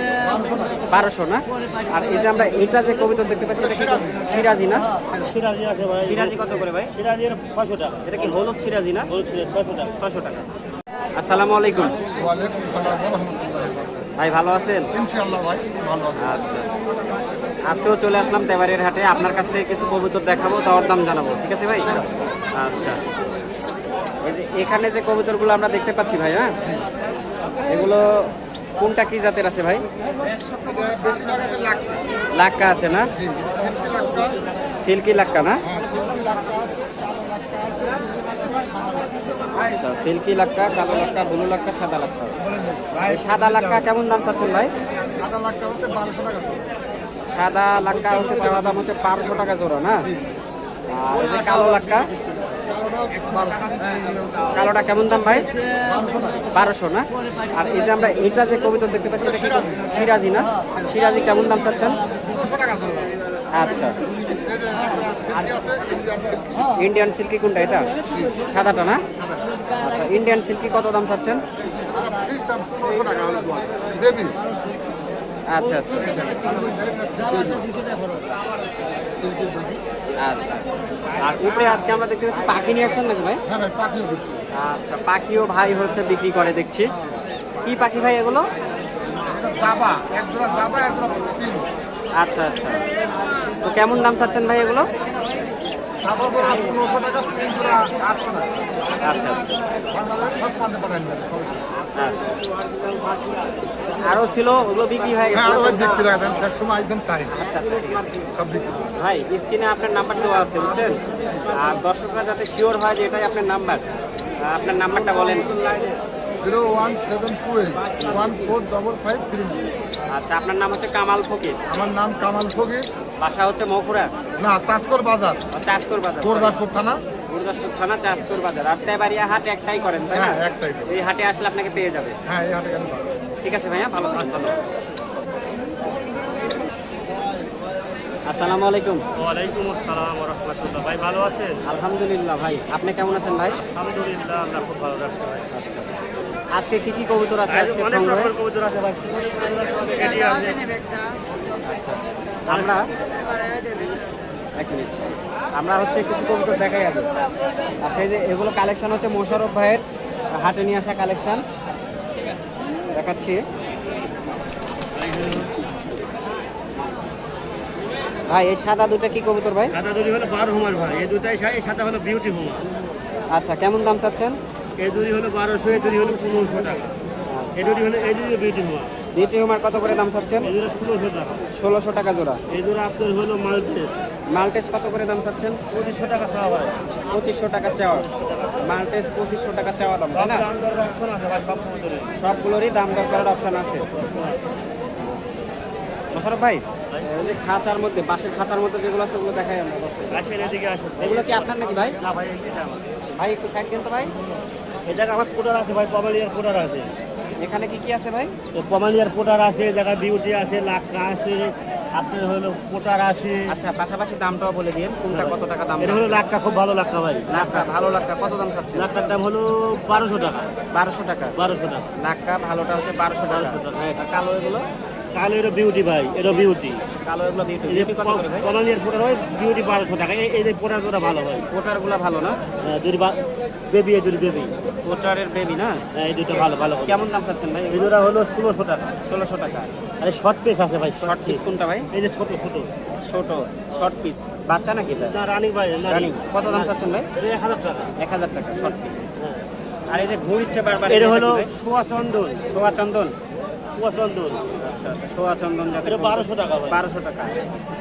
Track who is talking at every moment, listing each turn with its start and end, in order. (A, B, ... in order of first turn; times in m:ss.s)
0:00.2-0:00.8 A
0:00.9-0:04.9 B
0:03.7-0:04.2 A
0:05.2-0:06.4 C
0:06.0-0:06.9 B
0:06.9-0:08.1 C
0:08.0-0:09.1 B
0:09.1-0:10.0 C
0:10.0-0:10.4 B
0:11.1-0:12.0 B
0:12.1-0:14.1 A
0:14.2-0:14.9 B
0:14.9-0:16.3 A
0:16.2-0:16.7 B
0:17.7-0:23.0 B
0:24.2-0:26.6 B
0:27.7-0:29.8 B
0:30.4-0:32.0 A
0:32.3-0:33.1 B
0:33.2-0:34.4 A
0:34.8-0:35.6 B
0:35.6-0:39.2 A
0:39.5-0:42.4 B
0:42.4-0:43.8 A
0:43.0-0:44.7 B
0:45.1-0:46.7 A
0:47.3-0:50.1 B
0:48.6-0:48.8 A
0:50.9-0:52.1 B
0:52.7-0:53.8 A
0:54.5-0:55.5 B
0:55.8-0:56.4 A
0:56.5-1:02.0 B
0:59.3-0:59.7 A
1:02.3-1:03.1 A
1:03.5-1:04.0 B
1:04.3-1:06.6 A
1:06.7-1:07.9 B
1:08.0-1:08.4 A
1:08.5-1:09.0 B
1:09.2-1:09.4 A
1:09.8-1:11.4 B
1:11.8-1:14.4 A
1:15.5-1:16.3 B
1:16.0-1:17.7 A
1:19.1-1:19.8 A
1:20.2-1:20.6 B
1:21.1-1:23.4 B
1:23.5-1:24.4 A
1:24.5-1:26.9 B
1:27.6-1:28.4 B
1:29.2-1:31.6 A
1:32.2-1:32.8 B
1:33.6-1:34.9 B
1:36.0-1:39.3 A
1:39.0-1:39.5 B
1:39.9-1:41.7 A
1:41.9-1:42.4 B
1:44.0-1:46.1 B
1:45.3-1:47.3 A
1:47.3-1:48.2 B
1:48.3-1:48.9 A
1:48.9-1:53.8 B
1:54.4-1:55.5 B
1:55.6-1:55.9 C
1:56.4-1:59.7 A
1:58.0-1:58.3 C
2:00.1-2:01.6 B
2:01.7-2:02.9 A
2:03.2-2:04.1 B
2:04.4-2:05.4 A
2:05.5-2:06.6 B
2:06.2-2:07.0 A
2:07.3-2:12.2 B
2:10.1-2:11.0 A
2:12.2-2:13.2 A
2:13.4-2:14.6 B
2:18.2-2:19.0 B
2:19.1-2:21.6 C
2:21.6-2:23.6 B
2:23.6-2:25.5 C
2:25.5-2:25.9 B
2:26.5-2:28.3 B
2:27.5-2:30.8 C
2:31.6-2:32.9 B
2:32.5-2:32.8 C
2:34.6-2:37.1 B
2:37.8-2:41.4 B
2:42.9-2:43.4 B
2:44.9-2:45.5 C
2:48.3-2:49.7 B
2:49.7-2:52.7 C
2:53.3-2:54.4 B
2:54.8-2:56.9 C
2:57.2-2:57.8 B
2:57.6-2:59.0 C
2:59.1-3:00.5 B
3:00.4-3:01.4 C
3:01.5-3:02.4 B
3:02.5-3:03.9 C
3:04.3-3:05.6 B
3:05.7-3:06.8 C
3:07.1-3:08.1 B
3:08.0-3:08.8 C
3:08.6-3:10.5 B
3:10.1-3:12.1 C
3:12.2-3:13.9 B
3:13.9-3:14.5 C
3:15.0-3:15.4 B
3:16.1-3:20.3 B
3:20.1-3:22.8 C
3:21.0-3:22.0 B
3:23.2-3:24.1 B
3:24.8-3:26.9 C
3:27.4-3:28.3 B
3:28.5-3:33.5 C
3:33.5-3:36.2 B
3:35.1-3:37.6 C
3:37.3-3:38.9 B
3:38.7-3:40.5 C
3:40.7-3:41.3 B
3:41.4-3:41.9 C
3:42.0-3:44.6 B
3:43.2-3:43.9 C
3:45.1-3:46.8 C
3:47.0-3:48.5 B
3:47.7-3:51.5 C
3:51.5-3:52.4 B
3:52.6-3:54.5 C
3:54.8-3:55.8 B
3:55.9-3:57.0 C
3:56.8-3:57.9 B
3:57.7-3:58.9 C
3:59.0-3:59.7 B
4:00.0-4:02.7 C
4:01.0-4:01.9 B
4:03.0-4:05.2 B
4:05.0-4:07.9 C
4:05.9-4:07.1 B
4:08.0-4:09.0 B
4:09.2-4:09.4 C
4:09.9-4:11.5 B
4:10.9-4:12.5 C
4:12.5-4:13.1 B
4:13.7-4:14.4 C
4:14.6-4:17.4 B
4:15.8-4:16.8 C